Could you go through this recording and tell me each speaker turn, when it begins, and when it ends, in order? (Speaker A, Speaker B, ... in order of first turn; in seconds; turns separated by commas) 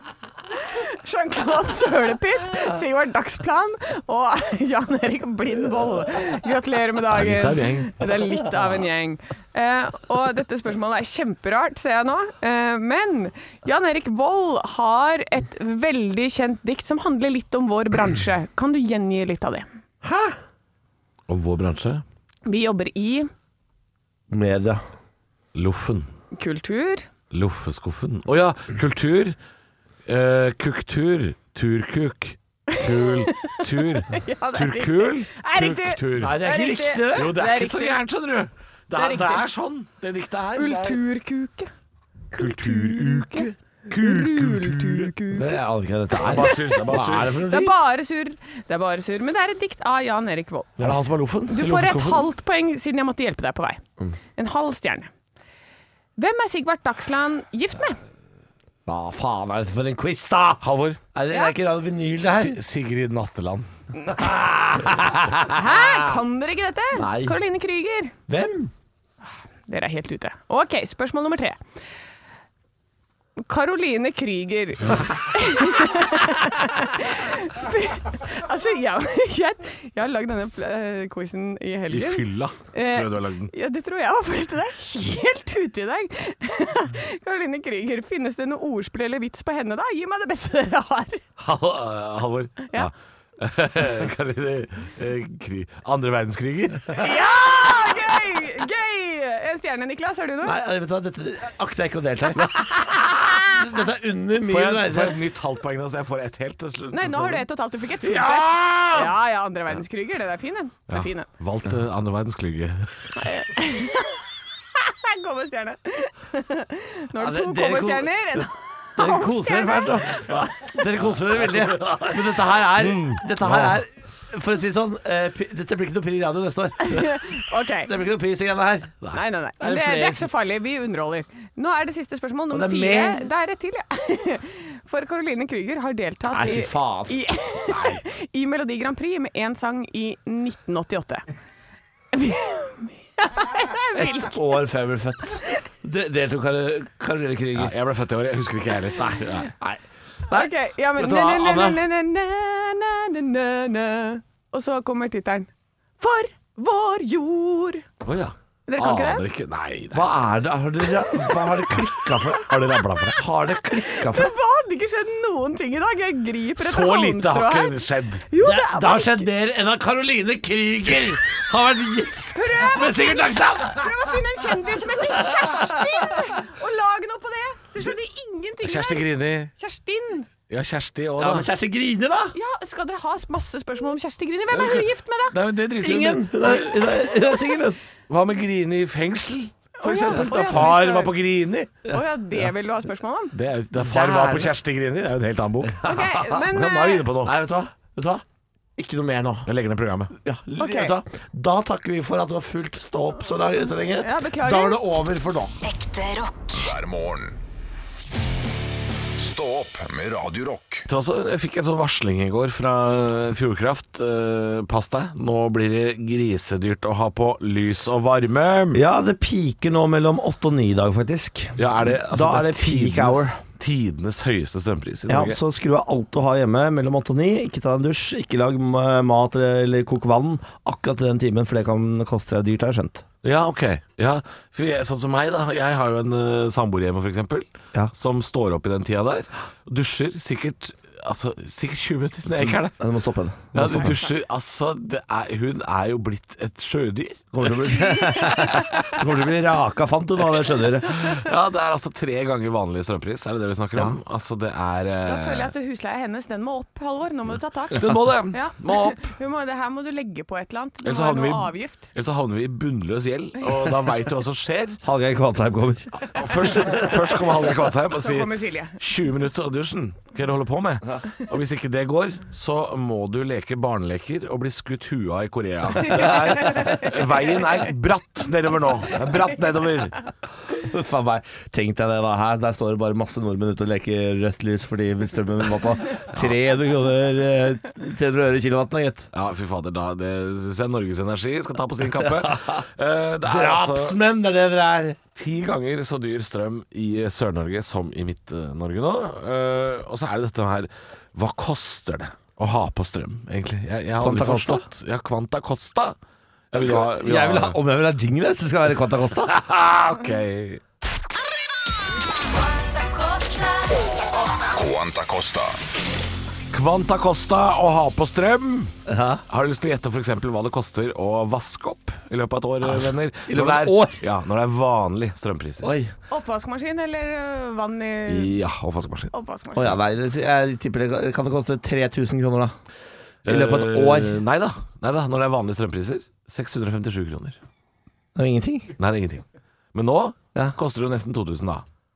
Speaker A: 0.6-19.7, Speaker B: 7.1-8.1, Speaker C: 20.0-20.4, Speaker B: 21.3-22.0, Speaker A: 22.5-23.3, Speaker C: 24.3-24.8, Speaker B: 25.6-26.1, Speaker A: 26.3-27.1, Speaker B: 27.3-29.4, Speaker B: 30.1-36.4, Speaker A: 32.7-33.6, Speaker A: 34.1-38.0, Speaker C: 36.1-37.4, Speaker B: 37.1-41.0, Speaker A: 38.9-39.5, Speaker A: 40.6-41.7, Speaker A: 42.3-45.5, Speaker B: 42.4-45.1, Speaker C: 45.3-47.8, Speaker B: 46.1-47.4, Speaker A: 46.2-46.8, Speaker A: 47.5-50.9, Speaker B: 50.8-52.3, Speaker A: 51.5-53.8, Speaker A: 54.4-55.1, Speaker A: 56.2-58.0, Speaker C: 58.9-60.6, Speaker B: 60.6-61.0, Speaker C: 61.1-62.6, Speaker B: 62.2-63.7, Speaker C: 64.1-66.2, Speaker A: 65.5-68.1, Speaker C: 66.9-67.4, Speaker C: 68.3-68.7, Speaker A: 69.7-71.6, Speaker A: 73.5-91.2, Speaker B: 81.9-83.5, Speaker B: 91.4-97.1, Speaker A: 97.0-100.6, Speaker C: 100.4-105.2, Speaker B: 104.5-107.5, Speaker A: 106.9-111.3, Speaker B: 108.0-109.0, Speaker B: 110.9-113.1, Speaker A: 113.2-120.2, Speaker C: 117.2-118.2, Speaker C: 119.0-127.2, Speaker B: 121.2-123.8, Speaker A: 126.9-127.9, Speaker C: 127.8-130.3, Speaker A: 129.1-141.3, Speaker C: 132.5-133.2, Speaker C: 136.3-137.2, Speaker B: 137.7-138.0, Speaker A: 142.1-144.4, Speaker C: 143.9-147.7, Speaker B: 147.6-149.5, Speaker C: 149.0-151.8, Speaker A: 150.3-157.8, Speaker B: 158.0-160.1, Speaker A: 158.7-159.2, Speaker C: 159.9-164.3, Speaker B: 162.4-163.2, Speaker A: 163.8-169.3, Speaker B: 166.6-168.3, Speaker C: 168.4-174.0, Speaker A: 172.3-180.3, Speaker C: 175.0-176.1, Speaker B: 178.6-179.5, Speaker B: 180.5-181.5, Speaker C: 181.2-182.4, Speaker A: 182.3-185.4, Speaker B: 184.5-187.0, Speaker C: 185.8-187.8, Speaker B: 188.1-191.8, Speaker A: 189.8-191.1, Speaker C: 190.0-190.7, Speaker A: 191.9-193.3, Speaker B: 193.3-197.3, Speaker C: 193.7-194.5, Speaker C: 195.7-196.2, Speaker A: 195.8-197.1, Speaker C: 197.2-198.2, Speaker C: 198.8-199.5, Speaker B: 199.5-200.1, Speaker C: 200.2-205.6, Speaker A: 200.6-201.0, Speaker A: 204.0-204.9, Speaker D: 205.6-206.7, Speaker E: 206.5-207.4, Speaker E: 209.2-210.9, Speaker B: 210.9-218.8, Speaker C: 218.7-223.4, Speaker B: 221.6-225.4, Speaker C: 225.1-233.1, Speaker B: 233.2-242.7, Speaker C: 242.3-243.9, Speaker B: 243.5-247.3, Speaker C: 247.3-251.1, Speaker A: 247.9-248.6, Speaker B: 250.9-255.5, Speaker A: 255.1-261.9, Speaker B: 257.7-259.2, Speaker B: 260.8-264.8, Speaker C: 264.8-266.8, Speaker B: 266.1-280.0, Speaker A: 268.0-268.8, Speaker A: 275.9-276.9, Speaker C: 280.5-289.1, Speaker B: 289.1-294.0, Speaker C: 292.0-292.6, Speaker C: 293.2-295.0, Speaker B: 295.1-306.0, Speaker C: 304.0-304.6, Speaker B: 306.5-307.6, Speaker C: 306.5-309.3, Speaker B: 309.2-310.6, Speaker D: 312.5-313.7, Speaker E: 314.5-315.6, Speaker B: 316.5-318.7, Speaker C: 318.9-319.2, Speaker B: 319.3-325.7, Speaker C: 322.6-324.0, Speaker C: 325.6-325.9, Speaker A: 326.1-328.3, Speaker B: 328.1-329.1, Speaker A: 329.1-329.7, Speaker C: 329.5-332.6, Speaker B: 333.2-337.4, Speaker C: 333.2-334.2, Speaker C: 338.1-338.8, Speaker B: 338.8-341.6